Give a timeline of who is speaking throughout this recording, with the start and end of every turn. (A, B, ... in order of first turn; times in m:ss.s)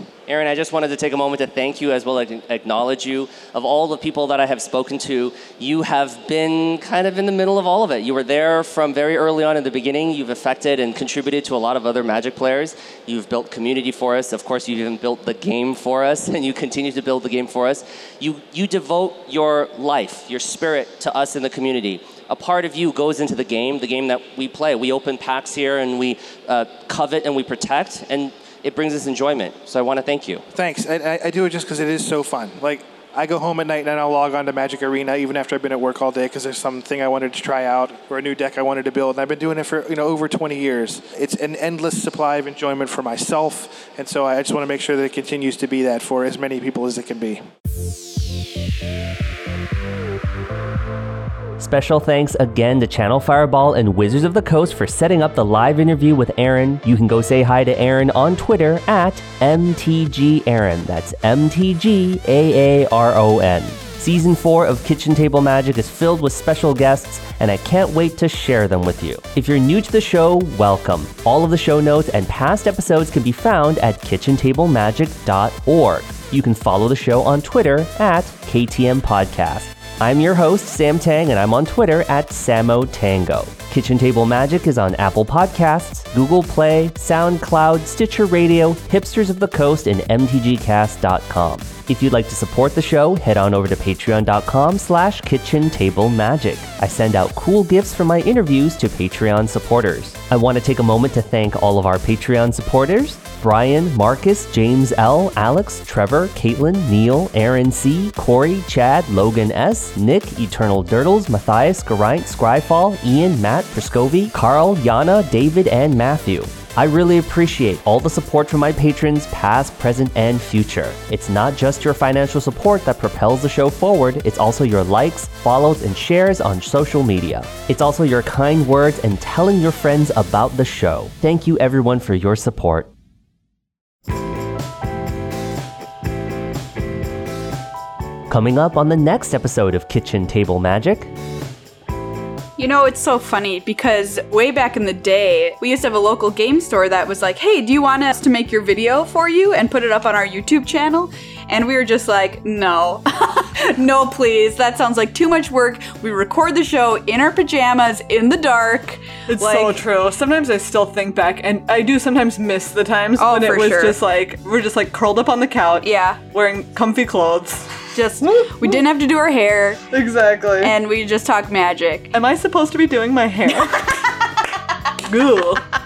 0:00.3-0:30.4 A
0:30.5-0:47.5 B
0:51.6-2:12.9 A
2:18.3-2:21.1 A
2:22.6-2:39.8 C
2:39.3-2:48.8 D
2:43.2-2:44.0 C
2:45.8-2:46.2 C
2:47.9-2:49.8 C
2:49.9-2:50.7 D
2:50.6-2:52.1 C
2:52.1-2:54.1 D
2:53.5-2:54.1 C
2:55.0-2:55.6 D